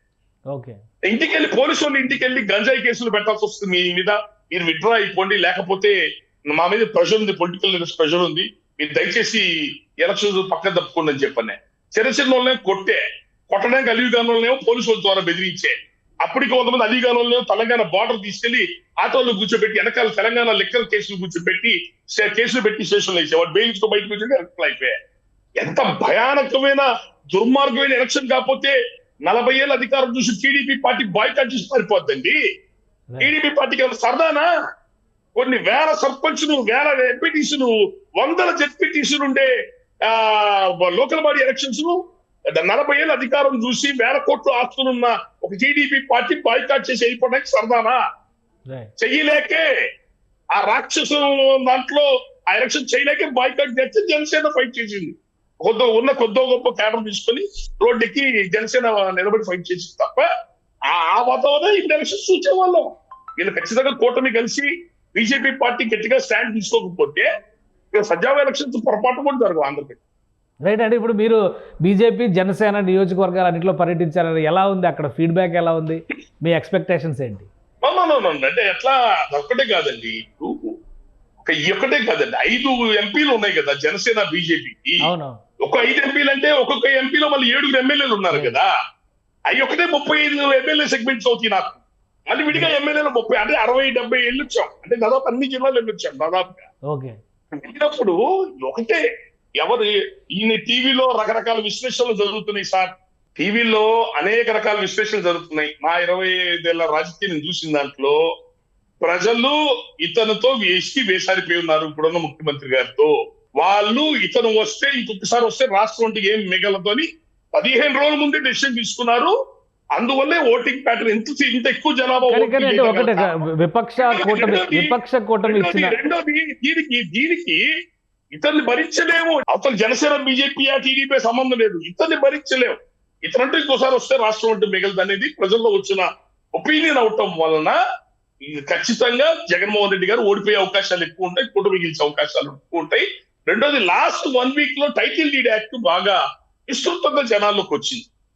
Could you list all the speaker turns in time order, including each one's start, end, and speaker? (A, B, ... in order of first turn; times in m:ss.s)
0:00.5-0:00.8 A
0:01.0-0:06.0 B
0:06.5-0:09.5 B
0:10.0-0:25.0 B
0:25.6-0:32.4 B
0:33.2-0:34.5 B
0:35.4-0:39.5 B
0:40.0-0:42.0 B
0:42.5-0:48.0 B
0:49.0-0:49.7 B
0:50.6-1:00.3 B
1:00.9-1:07.3 B
1:07.9-1:10.0 B
1:10.6-1:17.5 A
1:17.8-1:20.8 B
1:21.4-1:25.1 B
1:25.0-1:25.4 A
1:25.6-1:28.7 B
1:28.3-1:28.6 A
1:29.5-1:36.7 B
1:36.9-1:37.2 A
1:37.6-1:39.0 B
1:39.6-1:48.2 B
1:49.0-1:59.3 B
2:00.0-2:03.4 B
2:02.3-2:06.0 A
2:04.0-2:07.6 B
2:08.3-2:17.8 B
2:18.4-2:26.2 B
2:26.7-2:28.1 B